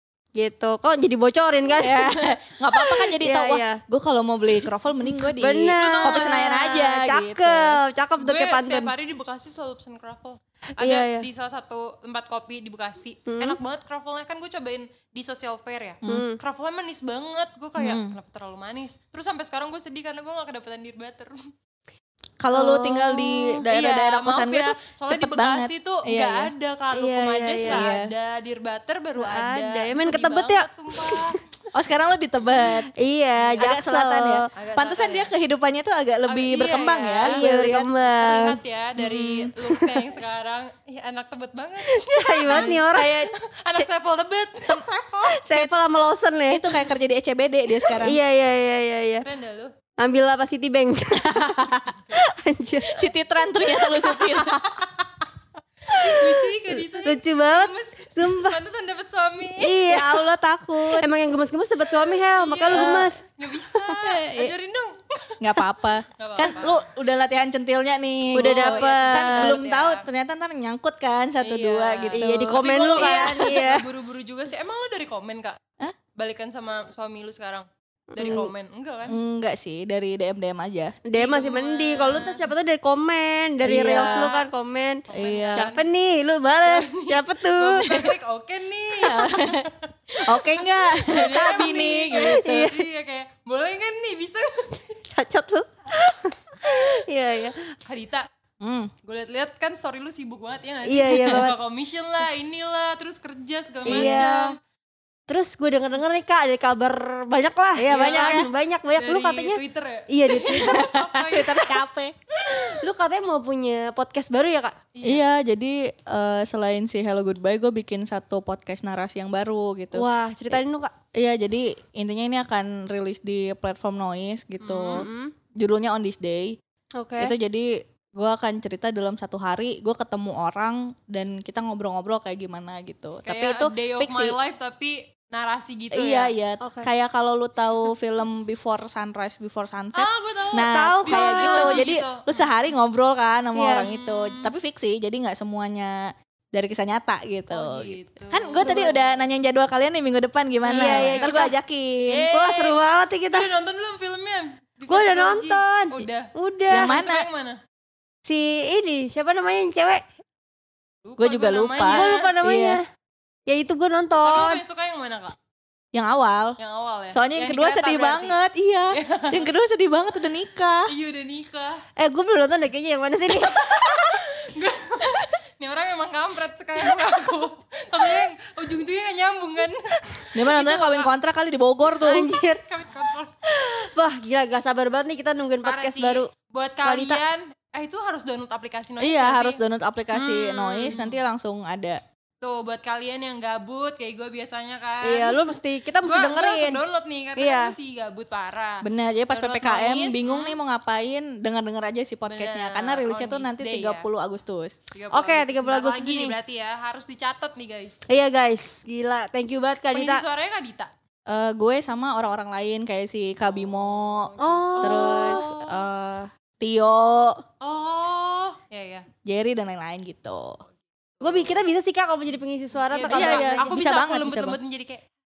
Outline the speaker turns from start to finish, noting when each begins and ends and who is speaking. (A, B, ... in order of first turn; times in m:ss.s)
0:00.4-0:03.8 A
0:01.8-0:07.8 B
0:05.4-0:08.9 A
0:05.8-0:06.6 C
0:08.2-0:21.5 C
0:10.8-0:11.3 A
0:13.3-0:13.6 A
0:16.1-0:16.4 A
0:17.8-0:18.1 B
0:22.4-0:26.5 B
0:22.5-0:23.6 A
0:23.7-0:31.4 C
0:26.9-0:27.9 A
0:27.7-0:28.1 B
0:29.2-0:31.4 A
0:31.7-0:32.9 B
0:32.6-0:34.5 A
0:33.6-0:37.9 B
0:34.6-0:35.3 C
0:36.3-0:37.4 C
0:37.2-0:38.6 A
0:38.1-0:45.4 C
0:39.0-0:39.5 B
0:39.6-0:40.0 A
0:41.8-0:43.3 A
0:42.5-0:42.8 B
0:45.3-0:46.7 A
0:46.5-0:48.2 B
0:47.8-0:49.2 A
0:49.2-0:49.7 C
0:50.0-0:51.6 A
0:51.2-0:51.9 B
0:51.9-0:52.2 C
0:52.1-0:54.5 A
0:52.9-0:54.7 B
0:55.9-0:58.6 A
0:55.9-0:59.8 C
0:59.6-1:00.2 A
0:59.8-1:01.1 B
1:01.0-1:04.0 A
1:02.4-1:05.4 C
1:02.7-1:03.1 B
1:04.0-1:04.5 B
1:05.4-1:13.6 B
1:06.2-1:06.8 C
1:08.3-1:09.6 A
1:08.4-1:10.0 C
1:11.4-1:15.6 C
1:12.1-1:13.9 A
1:16.2-1:19.2 C
1:18.1-1:18.5 A
1:19.0-1:21.0 B
1:21.1-1:28.0 A
1:21.1-1:22.5 C
1:23.6-1:24.3 B
1:23.7-1:24.5 C
1:25.1-1:25.8 C
1:25.1-1:25.7 B
1:26.6-1:29.9 C
1:29.0-1:29.7 B
1:30.2-1:32.7 B
1:31.0-1:34.8 C
1:32.4-1:32.8 A
1:35.1-1:37.7 A
1:37.9-1:38.3 C
1:38.6-1:38.9 B
1:39.0-1:44.6 C
1:40.9-1:41.6 A
1:43.8-1:44.6 A
1:43.9-1:44.3 B
1:45.3-1:50.9 A
1:47.8-1:48.5 B
1:47.9-1:48.5 C
1:49.0-1:51.8 C
1:50.6-1:52.2 B
1:52.5-1:54.8 A
1:54.9-1:55.2 C
1:55.0-2:00.6 B
1:59.9-2:00.9 A
2:01.2-2:05.1 B
2:04.6-2:05.1 C
2:04.9-2:05.3 A
2:05.6-2:06.6 B
2:07.0-2:07.3 A
2:07.2-2:14.4 B
2:13.3-2:16.3 C
2:15.9-2:32.3 B
2:16.6-2:16.9 A
2:20.0-2:22.5 C
2:20.7-2:21.9 A
2:23.5-2:23.9 A
2:23.7-2:24.5 C
2:27.5-2:28.9 C
2:28.6-2:29.0 A
2:30.7-2:31.5 C
2:30.7-2:31.5 A
2:32.1-2:32.8 C
2:32.3-2:33.5 A
2:33.3-2:37.6 C
2:34.9-2:37.0 A
2:36.7-2:37.3 B
2:38.2-2:40.0 A
2:41.0-2:42.3 C
2:41.2-2:42.8 B
2:41.9-2:42.8 A
2:43.5-2:44.6 A
2:44.2-2:45.4 C
2:45.9-2:46.6 B
2:46.6-2:48.4 C
2:47.1-2:50.9 B
2:48.9-2:49.5 C
2:50.9-2:51.8 C
2:52.0-2:54.3 A
2:53.8-3:01.1 C
3:00.4-3:02.3 B
3:01.9-3:02.6 A
3:02.6-3:03.3 C
3:03.4-3:06.3 A
3:05.6-3:09.6 C
3:06.8-3:07.2 A
3:09.0-3:12.0 B
3:10.1-3:10.9 A
3:10.9-3:11.2 C
3:12.4-3:20.6 C
3:15.0-3:16.8 A
3:17.4-3:17.7 A
3:18.8-3:24.8 B
3:22.3-3:24.1 C
3:24.9-3:28.0 C
3:25.1-3:26.3 A
3:28.1-3:30.2 A
3:29.9-3:30.9 C
3:31.3-3:37.4 B
3:33.6-3:35.8 C
3:34.4-3:35.5 A
3:37.6-3:39.1 C
3:39.2-3:40.6 B
3:41.2-3:41.6 C
3:41.2-3:43.8 A
3:42.9-3:45.0 C
3:43.1-3:44.6 B